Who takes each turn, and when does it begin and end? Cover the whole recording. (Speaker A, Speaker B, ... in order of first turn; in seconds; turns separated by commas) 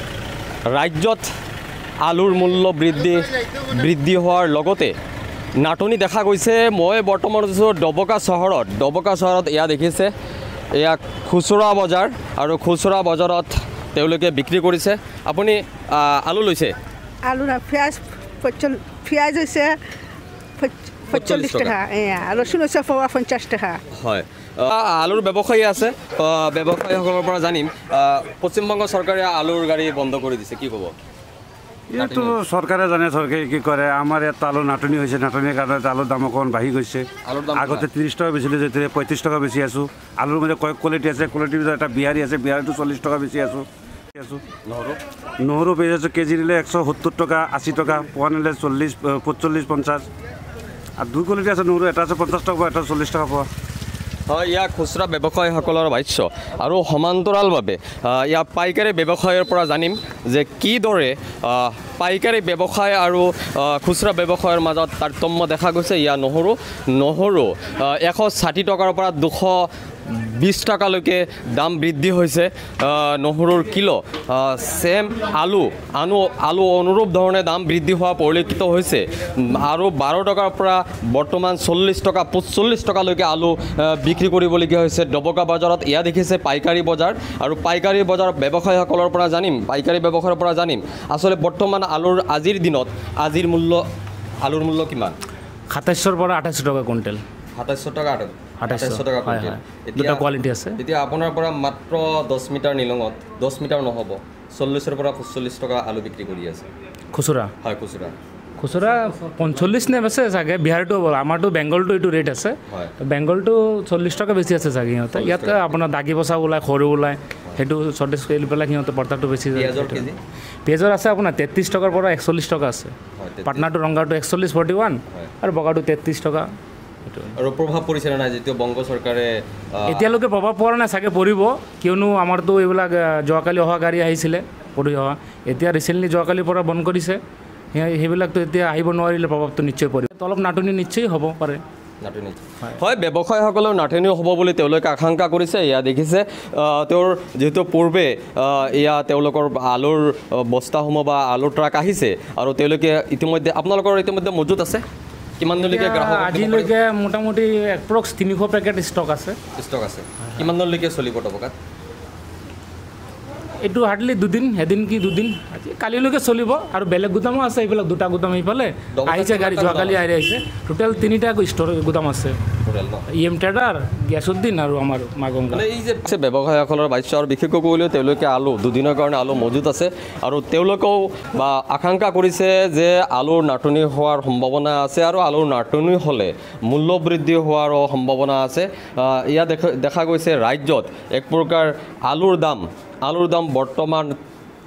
Speaker A: 0.7-1.3, Speaker A: 2.0-5.0, Speaker A: 5.6-10.1, Speaker A: 10.8-16.8, Speaker B: 17.2-19.8, Speaker B: 20.6-23.8, Speaker A: 21.1-21.8, Speaker A: 23.9-30.9, Speaker C: 31.9-44.4, Speaker A: 32.0-32.4, Speaker A: 37.2-37.9, Speaker A: 44.7-45.0, Speaker C: 45.4-50.1, Speaker C: 51.0-53.5, Speaker A: 54.3-93.8, Speaker A: 94.4-95.2, Speaker D: 95.7-97.2, Speaker A: 97.5-106.7, Speaker D: 98.6-100.8, Speaker D: 107.1-107.5, Speaker A: 107.6-108.2, Speaker D: 108.6-120.1, Speaker A: 112.7-112.9, Speaker A: 115.1-115.7, Speaker A: 119.5-120.2, Speaker D: 120.7-122.9, Speaker A: 123.2-123.7, Speaker D: 123.5-126.5, Speaker D: 127.1-127.3, Speaker A: 127.4-130.1, Speaker D: 129.9-137.2, Speaker D: 137.7-141.6, Speaker A: 142.0-154.8, Speaker A: 155.4-156.7, Speaker D: 155.6-159.4, Speaker A: 159.6-161.6, Speaker D: 163.6-172.4, Speaker A: 168.9-170.0, Speaker A: 172.6-173.1, Speaker D: 173.1-175.7, Speaker A: 175.5-194.2